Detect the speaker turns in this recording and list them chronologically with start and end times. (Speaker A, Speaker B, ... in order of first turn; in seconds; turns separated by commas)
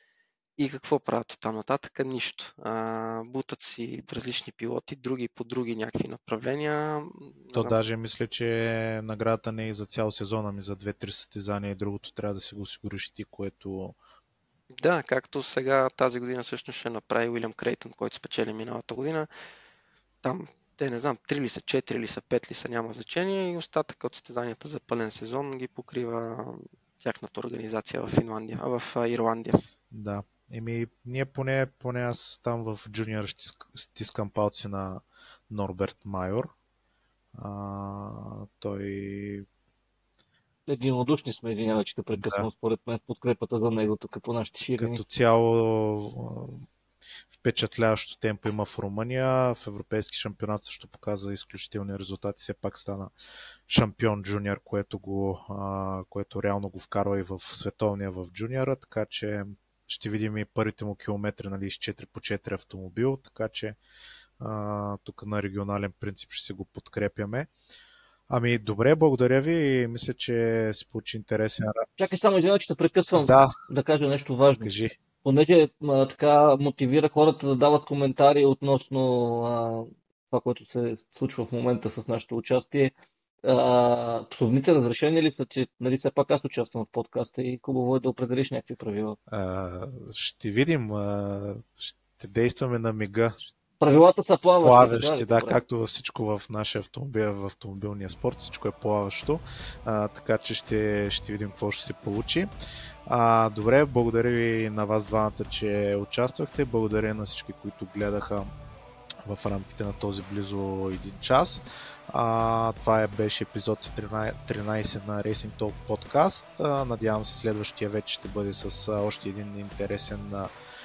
Speaker A: 0.6-7.7, Speaker B: 7.5-14.0, Speaker A: 14.8-19.3, Speaker A: 20.2-29.6, Speaker B: 29.9-36.5, Speaker B: 37.3-39.5, Speaker C: 40.7-45.0, Speaker B: 42.2-42.5, Speaker B: 44.8-46.6, Speaker B: 47.3-53.1, Speaker B: 53.7-63.8, Speaker B: 64.4-67.5, Speaker B: 68.3-71.8, Speaker C: 72.0-82.9, Speaker B: 73.2-73.5, Speaker B: 74.6-74.9, Speaker C: 83.4-89.2, Speaker B: 89.3-93.5, Speaker C: 93.8-95.6, Speaker B: 94.6-102.5, Speaker B: 103.1-108.5, Speaker B: 109.2-120.5